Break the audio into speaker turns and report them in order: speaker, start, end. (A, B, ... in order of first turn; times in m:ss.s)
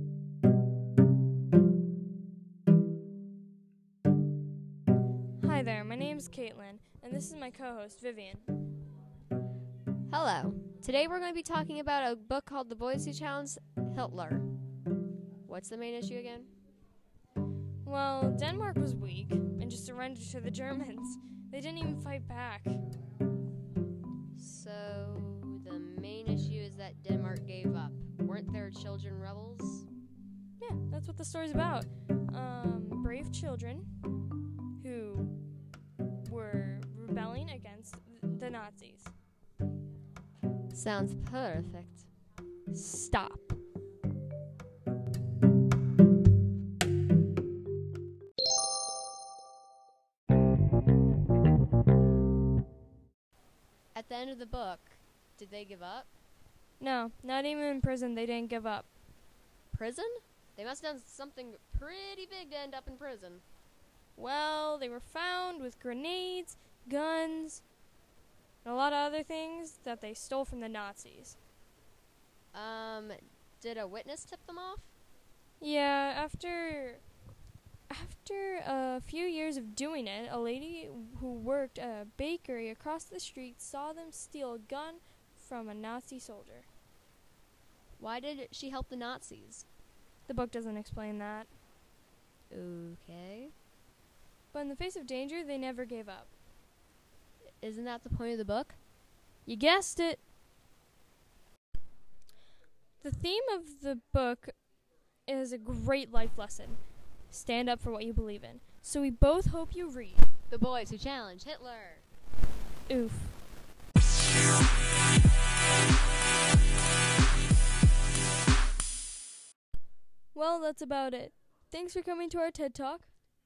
0:05.4-0:08.5 A
0:10.1-0:14.5 B
0:15.4-0:16.5 B
0:17.8-0:22.8 A
0:24.3-0:29.9 B
0:30.6-0:34.0 A
0:34.8-0:35.4 A
0:36.2-0:39.1 A
0:40.7-0:42.0 B
0:42.7-0:43.5 A
0:53.9-0:56.1 B
0:56.8-0:58.9 A
0:59.7-1:03.4 B
1:04.2-1:07.6 A
1:08.6-1:11.4 A
1:12.5-1:15.0 B
1:15.6-1:17.0 A
1:17.9-1:26.7 A
1:28.0-1:29.6 B
1:30.2-1:31.6 A
1:32.5-1:33.5 B
1:34.5-1:36.3 A
1:37.6-1:38.8 B
1:39.4-1:40.2 A
1:43.0-1:44.6 A
1:45.2-1:50.3 A
1:50.5-1:52.1 B
1:52.9-1:53.4 A
2:00.3-2:03.1 A